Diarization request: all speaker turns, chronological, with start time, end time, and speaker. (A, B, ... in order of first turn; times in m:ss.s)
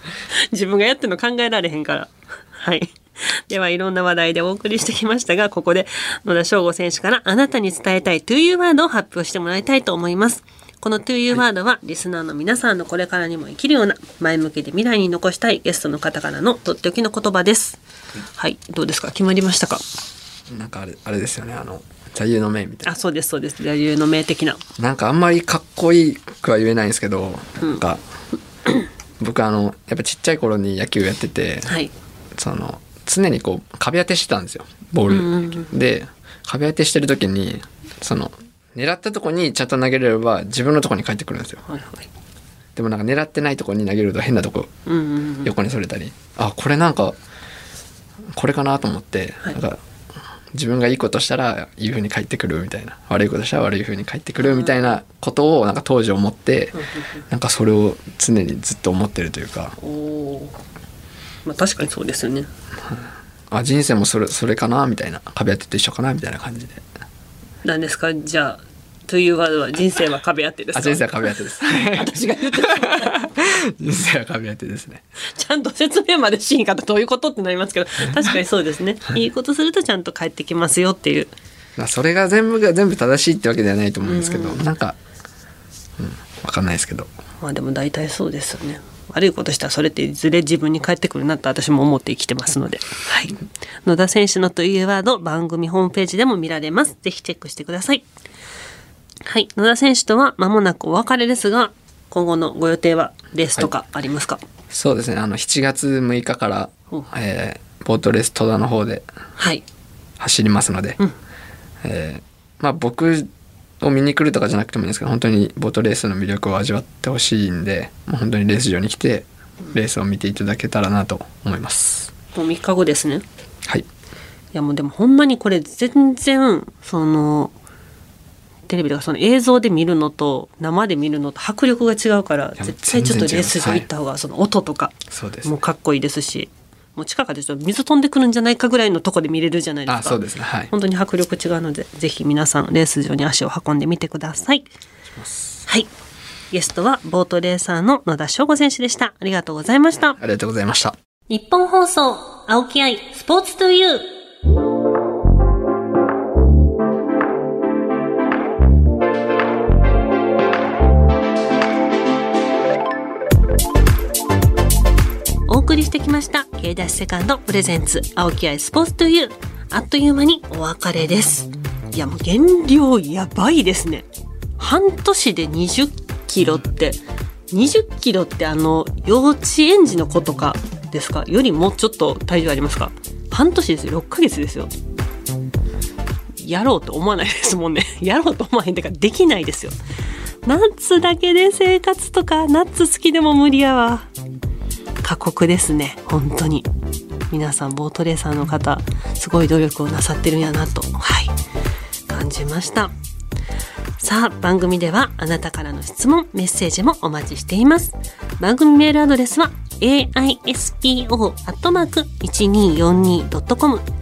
0:00.3-0:19.8 A
0:20.5-0:23.0 B
0:22.8-0:24.6 A
0:24.8-0:28.0 B
0:29.2-0:31.8 B
0:31.7-0:31.9 A
0:32.4-0:41.6 B
0:35.1-0:35.8 A
0:41.7-0:42.1 A
0:42.8-0:44.7 B
0:44.9-0:45.5 A
0:45.4-0:47.2 B
0:48.3-0:49.8 B
0:50.5-0:59.8 B
0:54.4-0:54.9 A
0:56.7-0:57.2 A
0:59.8-1:00.6 A
1:01.4-1:02.5 A
1:02.8-1:06.8 B
1:07.6-1:13.3 A
1:10.7-1:15.0 B
1:15.2-1:21.3 A
1:21.8-1:25.0 B
1:24.0-1:24.6 A
1:26.0-1:27.1 B
1:27.4-1:38.0 A
1:39.2-1:44.4 A
1:44.7-1:49.1 B
1:49.4-1:49.6 A
1:50.2-1:51.0 B
1:51.8-1:53.3 B
1:53.8-2:02.1 B
2:02.3-2:03.2 A
2:04.5-2:07.5 A
2:08.7-2:24.7 A
2:12.6-2:13.9 B
2:15.1-2:15.5 B
2:19.9-2:20.7 B
2:25.1-2:25.6 B
2:26.5-2:30.2 A
2:30.2-2:31.0 B
2:31.3-2:34.1 A
2:45.5-2:54.1 A
2:54.6-3:04.7 A
3:06.4-3:09.8 A
3:10.4-3:14.1 A
3:15.0-3:16.7 A
3:17.3-3:21.4 A
3:22.1-3:22.9 A
3:24.0-3:33.8 A